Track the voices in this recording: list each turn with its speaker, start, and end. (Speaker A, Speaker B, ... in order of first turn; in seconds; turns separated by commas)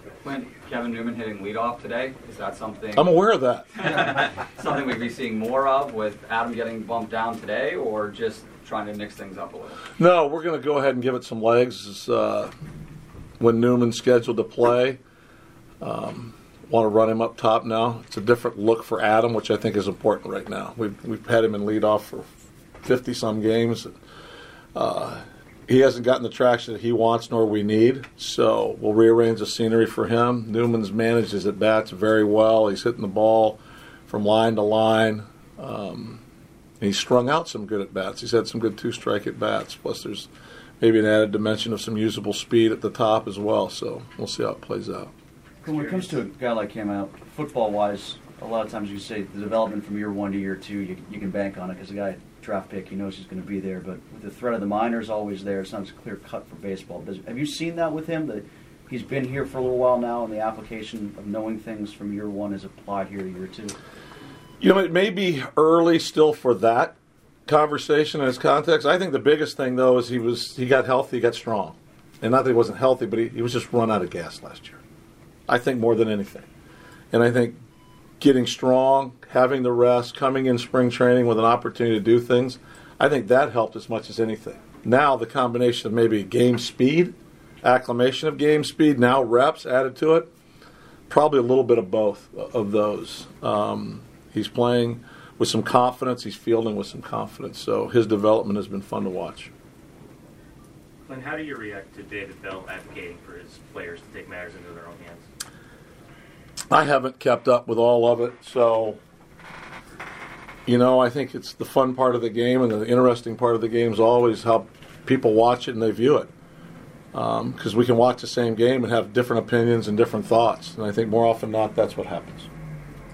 Speaker A: 0.7-2.9, Speaker B: 3.0-3.7, Speaker A: 4.7-8.3, Speaker A: 8.9-9.5, Speaker B: 10.0-12.5, Speaker B: 13.4-15.0, Speaker B: 15.8-22.3, Speaker B: 22.8-23.9, Speaker B: 24.8-36.2, Speaker B: 36.8-40.3, Speaker B: 40.8-45.1, Speaker C: 45.6-63.8, Speaker B: 64.6-67.0, Speaker B: 67.5-74.8, Speaker B: 75.5-76.5, Speaker B: 77.1-77.6, Speaker B: 78.2-90.3, Speaker B: 91.1-99.5, Speaker D: 101.1-105.3, Speaker B: 106.7-109.0, Speaker B: 110.7-116.3, Speaker B: 117.1-122.5